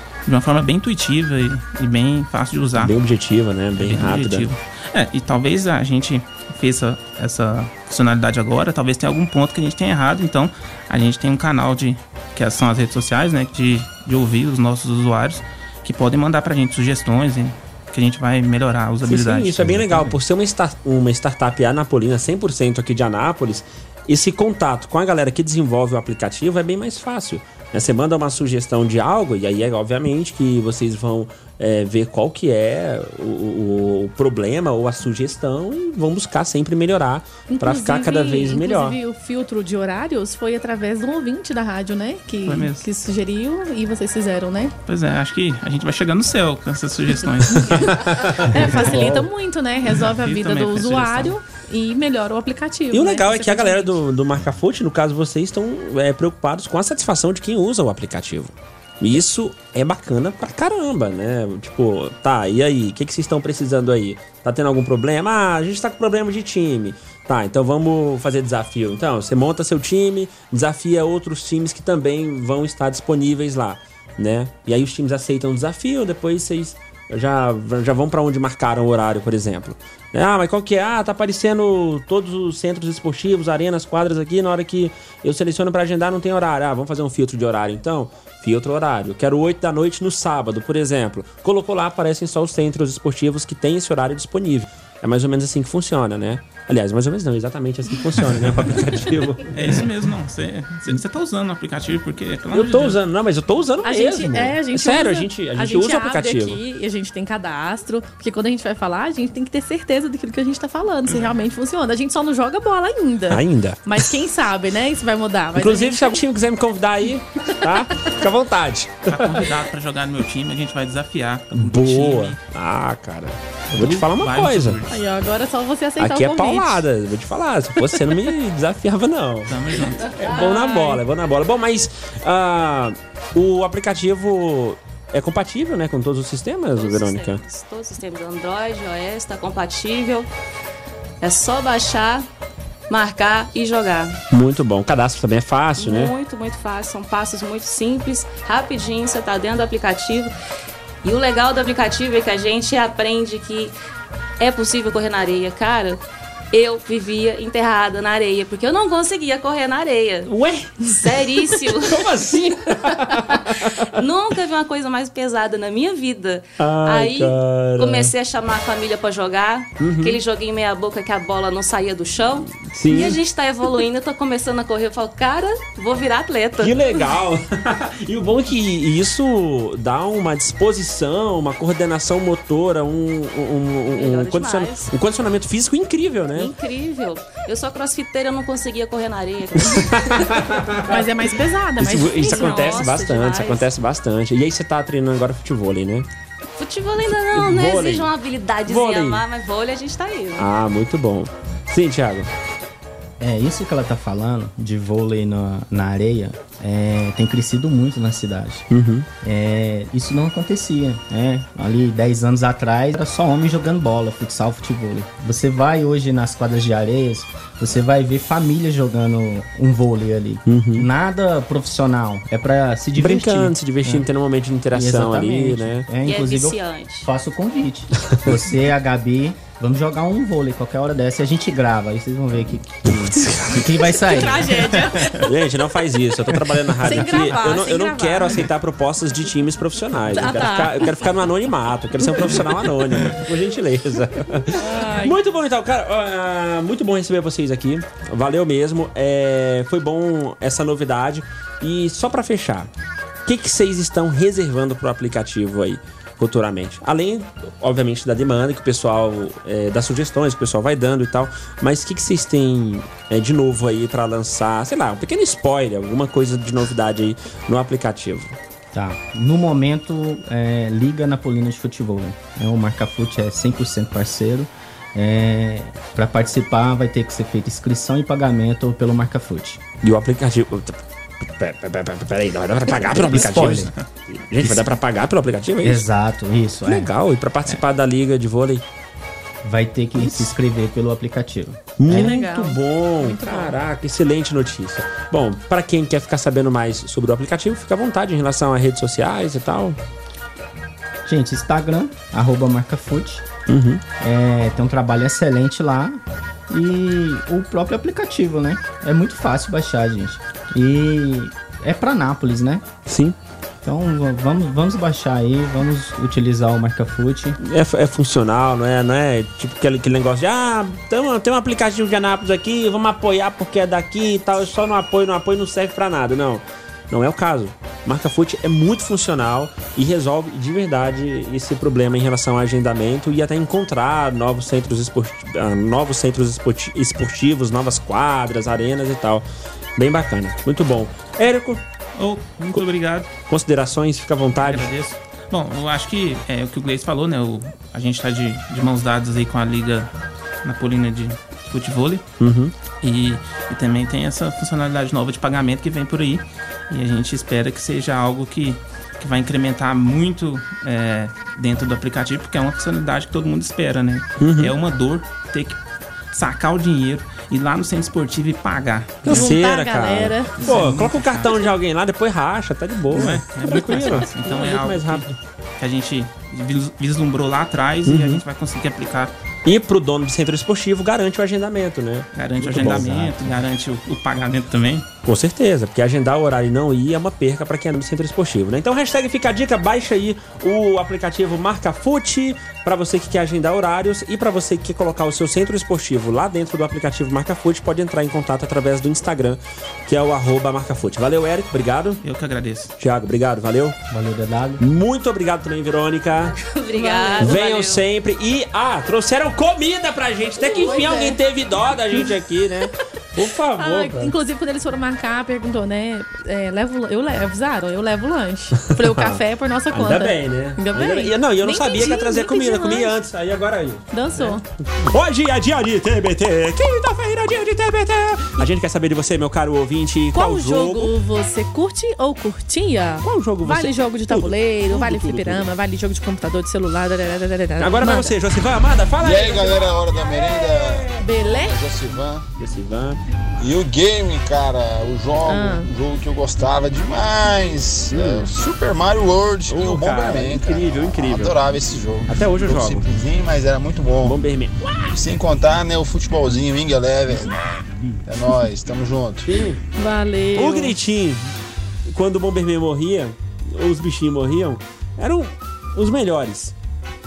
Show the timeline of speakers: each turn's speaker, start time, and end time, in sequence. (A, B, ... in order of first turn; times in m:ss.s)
0:00.2-0:03.0 A
0:02.8-0:04.5 B
0:03.8-0:20.1 A
0:19.0-0:39.0 B
0:37.5-0:44.7 C
0:42.4-0:42.9 A
0:44.9-0:48.1 A
0:47.7-0:49.3 B
0:48.3-0:54.0 C
0:50.0-0:51.4 A
0:52.9-1:39.8 B
1:39.5-1:43.0 A
1:42.5-1:46.6 B
1:43.8-1:56.2 C
1:53.3-1:54.1 B
1:55.6-1:59.5 B
1:59.1-2:02.4 A
2:01.5-2:04.8 B
2:03.7-2:05.0 A
2:04.9-2:06.8 C
2:06.0-2:17.4 B
2:09.5-2:10.4 A
2:16.7-2:20.3 D
2:21.2-2:22.3 D
2:22.9-2:24.2 D
2:24.3-2:26.1 B
2:25.8-2:30.3 D
2:31.0-2:33.7 D
2:34.4-2:40.3 D
2:40.2-2:43.9 B
2:40.8-2:42.1 D
2:43.9-2:57.0 D
2:46.6-2:48.1 B
2:49.8-2:50.2 B
2:52.7-2:53.2 B
2:56.6-3:06.5 B
3:03.9-3:04.9 D
3:06.4-3:10.4 D
3:09.6-3:11.1 B
3:10.9-3:12.8 C
3:11.8-3:16.1 B
3:12.2-3:13.7 D
3:16.6-3:20.5 D
3:17.3-3:18.1 B
3:18.6-3:19.2 B
3:20.4-3:22.3 B
3:23.2-3:28.6 E
3:28.7-3:29.1 B
3:29.2-3:44.1 E
3:40.5-3:40.9 B
3:43.0-3:45.9 B
3:44.7-3:55.1 E
3:46.0-3:47.1 D
3:53.1-3:53.6 B
3:54.1-3:55.2 C
3:55.2-4:12.7 B
3:56.8-3:58.4 C
4:00.1-4:01.0 C
4:04.6-4:05.2 C
4:13.2-4:28.4 B
4:28.7-4:39.6 E
4:39.8-4:45.9 B
4:42.9-4:43.7 E
4:45.6-4:46.9 E
4:46.6-4:48.6 B
4:49.4-4:52.2 E
4:50.0-4:50.3 B
4:51.8-4:59.8 B
4:51.9-4:53.5 C
5:01.0-5:03.2 E
5:03.5-5:03.8 B
5:04.0-5:12.6 E
5:12.9-5:13.2 B
5:13.6-5:17.4 E
5:17.4-5:39.2 B
5:39.8-5:41.6 B
5:42.0-5:43.1 A
5:43.3-5:44.7 B
5:44.4-5:49.9 A
5:50.4-5:52.0 A
5:52.2-5:52.6 B
5:52.8-6:05.6 A
6:04.2-6:04.6 B
6:06.1-6:09.4 A
6:09.0-6:15.1 B
6:09.1-6:10.5 C
6:10.4-6:11.5 A
6:12.9-6:15.1 A
6:15.6-6:19.1 A
6:17.9-6:18.2 B
6:19.4-6:23.1 B
6:22.1-6:24.9 A
6:22.6-6:23.3 E
6:25.0-6:42.0 B
6:42.0-6:42.7 A
6:42.8-6:43.8 B
6:43.9-6:44.6 E
6:44.6-6:46.4 B
6:46.4-6:47.8 D
6:46.7-6:47.4 C
6:47.2-6:54.1 B
6:50.4-6:51.2 C
6:53.6-7:03.0 C
6:58.6-7:10.9 B
7:03.9-7:04.4 C
7:10.1-7:18.1 C
7:13.0-7:15.5 B
7:17.6-7:20.9 B
7:19.0-7:22.2 F
7:21.0-7:21.6 C
7:22.4-7:23.0 B
7:23.4-7:34.2 F
7:25.2-7:25.7 C
7:27.9-7:28.3 B
7:29.5-7:31.4 B
7:32.1-7:32.9 B
7:34.0-7:35.0 B
7:34.9-7:37.5 F
7:38.1-7:39.3 F
7:39.2-7:39.6 B
7:39.8-7:40.8 C
7:40.4-7:41.3 B
7:41.9-7:46.6 B